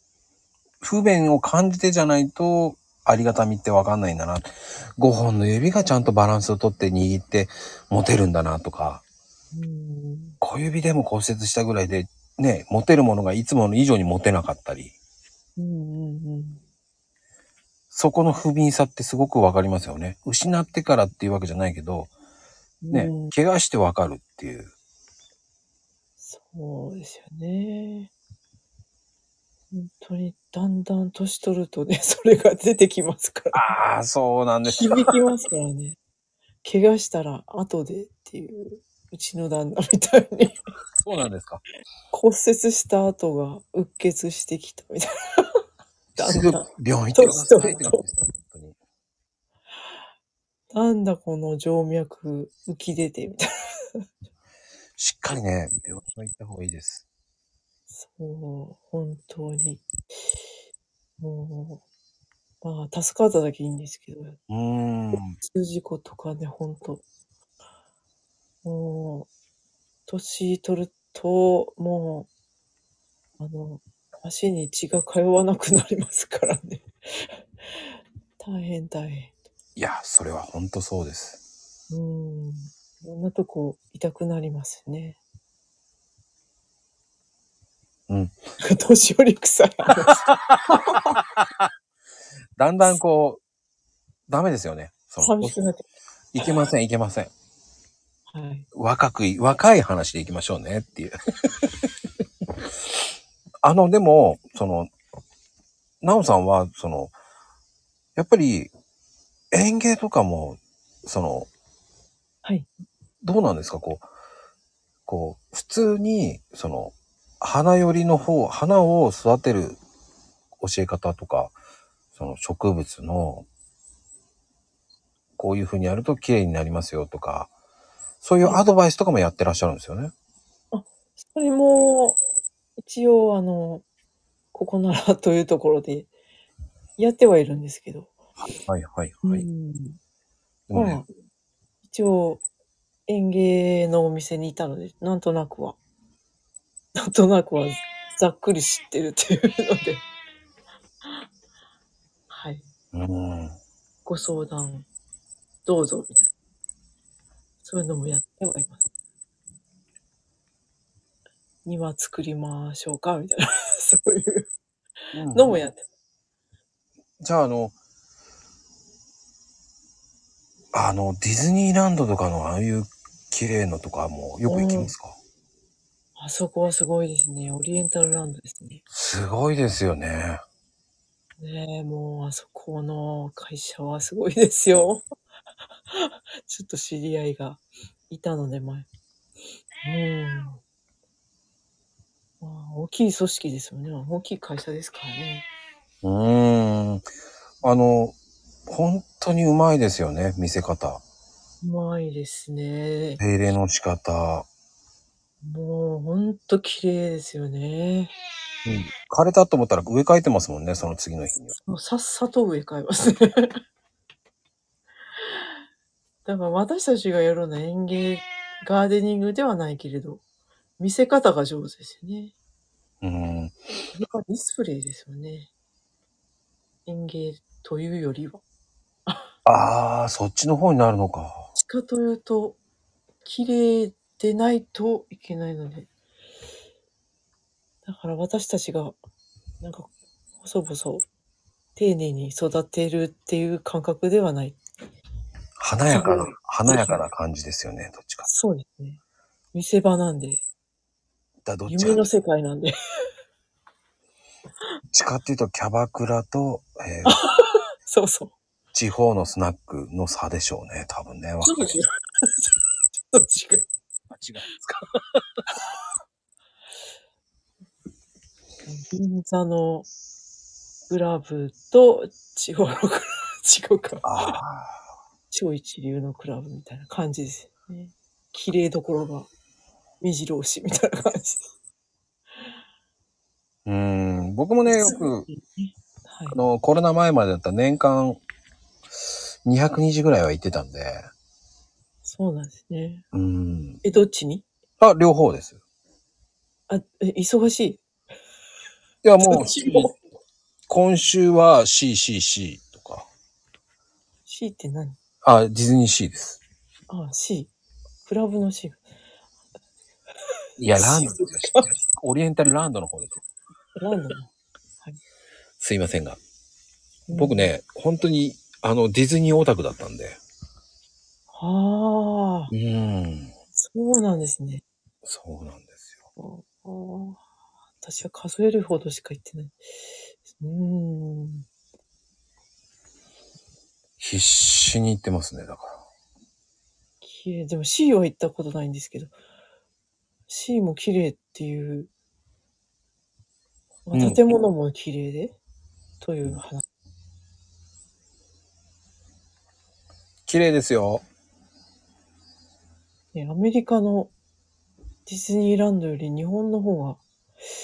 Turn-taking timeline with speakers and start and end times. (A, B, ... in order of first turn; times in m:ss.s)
0:00.8-0:09.0 A
0:09.5-0:10.4 B
0:10.4-0:14.9 A
0:15.6-0:16.6 B
0:17.9-0:22.1 A
0:22.8-0:23.3 B
0:22.9-0:24.7 A
0:26.2-0:28.1 B
0:29.7-0:33.7 B
0:33.5-0:35.1 A
0:34.6-0:36.0 B
0:36.6-0:40.6 B
0:41.0-0:41.6 A
0:42.1-0:45.6 B
0:46.2-0:48.0 B
0:46.2-0:48.8 A
0:50.7-0:54.0 B
0:55.0-0:57.0 A
0:57.9-0:59.8 B
1:01.2-1:01.8 B
1:02.6-1:04.4 B
1:04.5-1:05.4 A
1:05.4-1:07.0 B
1:08.6-1:09.3 B
1:10.1-1:12.3 B
1:13.4-1:17.4 B
1:18.4-1:19.4 B
1:19.8-1:21.4 A
1:21.9-1:25.2 B
1:28.1-1:28.3 A
1:28.6-1:31.2 B
1:30.3-1:30.6 A
1:31.2-1:31.7 A
1:32.6-1:33.4 A
1:34.3-1:35.6 A
1:35.2-1:35.8 B
1:36.3-1:37.3 A
1:38.3-1:38.7 B
1:38.7-1:41.9 A
1:43.6-1:44.9 A
1:46.0-1:47.1 A
1:48.2-1:48.7 A
1:49.5-1:51.5 A
1:53.2-1:54.1 A
1:55.1-1:59.8 A
2:00.6-2:01.5 A
2:02.1-2:03.4 A
2:05.4-2:07.5 A
2:08.2-2:10.1 A
2:10.7-2:12.2 B
2:12.8-2:13.8 B
2:14.5-2:16.1 B
2:17.0-2:18.2 B
2:18.4-2:19.4 A
2:19.2-2:20.0 B
2:20.7-2:21.0 A
2:20.7-2:21.1 B
2:21.8-2:22.4 B
2:23.1-2:25.8 B
2:26.9-2:30.0 B
2:32.3-2:32.6 B
2:32.9-2:33.6 A
2:34.0-2:34.9 B
2:35.6-2:36.3 B
2:37.6-2:38.8 B
2:41.6-2:44.5 B
2:45.1-2:45.8 B
2:45.1-2:45.6 A
2:47.2-2:47.7 A
2:50.7-2:55.2 A
2:54.5-2:54.9 B
2:56.2-2:58.8 B
2:58.9-3:00.4 A
3:01.4-3:05.0 B
3:05.9-3:08.9 B
3:09.8-3:10.6 B
3:12.4-3:15.5 B
3:16.0-3:17.1 A
3:17.6-3:18.1 A
3:18.7-3:21.0 A
3:21.6-3:23.2 B
3:23.2-3:24.5 A
3:25.4-3:28.1 B
3:28.6-3:31.5 A
3:31.6-3:33.6 B
3:36.2-3:40.2 B
3:40.8-3:42.3 B
3:43.0-3:43.6 A
3:43.9-3:45.5 B
3:46.8-3:48.4 B
3:49.4-3:51.5 A
3:51.5-3:52.6 B
3:53.2-3:55.9 B
3:57.8-3:58.9 B
3:59.6-3:59.9 B
4:00.4-4:01.0 B
4:01.8-4:04.6 B
4:05.6-4:08.3 A
4:05.9-4:07.0 B
4:08.2-4:09.0 B
4:09.5-4:10.4 B
4:11.4-4:12.0 A
4:11.7-4:12.7 B
4:14.9-4:17.2 A
4:17.0-4:18.3 B
4:18.7-4:21.8 A
4:21.4-4:23.7 B
4:24.1-4:25.2 A
4:28.7-4:29.9 B
4:30.9-4:34.4 B
4:34.0-4:34.8 A
4:35.3-4:39.3 B
4:40.0-4:41.5 B
4:43.6-4:45.3 A
4:44.6-4:46.4 B
4:46.3-4:48.2 A
4:49.4-4:51.0 A
4:52.0-4:53.0 B
4:53.1-4:53.8 A
4:53.8-4:54.4 B
4:54.8-4:55.6 A
4:56.7-4:57.8 B
4:59.0-4:59.9 A
4:59.2-4:59.9 B
5:00.7-5:03.1 A
5:04.3-5:05.0 B
5:05.2-5:06.4 A
5:06.9-5:07.5 B
5:08.0-5:08.8 B
5:10.6-5:13.2 A
5:10.7-5:11.7 B
5:13.8-5:14.3 B
5:15.6-5:16.2 A
5:17.1-5:17.5 B
5:17.1-5:20.2 A
5:21.3-5:22.5 B
5:22.5-5:23.3 A
5:23.5-5:24.6 B
5:25.0-5:25.9 A
5:26.2-5:27.2 B
5:27.8-5:31.4 B
5:34.0-5:35.8 A
5:37.0-5:39.1 B
5:40.3-5:41.9 B
5:43.9-5:45.4 B
5:43.9-5:44.2 A
5:46.0-5:46.6 B
5:50.3-5:51.0 A
5:53.1-5:54.1 B
5:55.0-5:57.0 B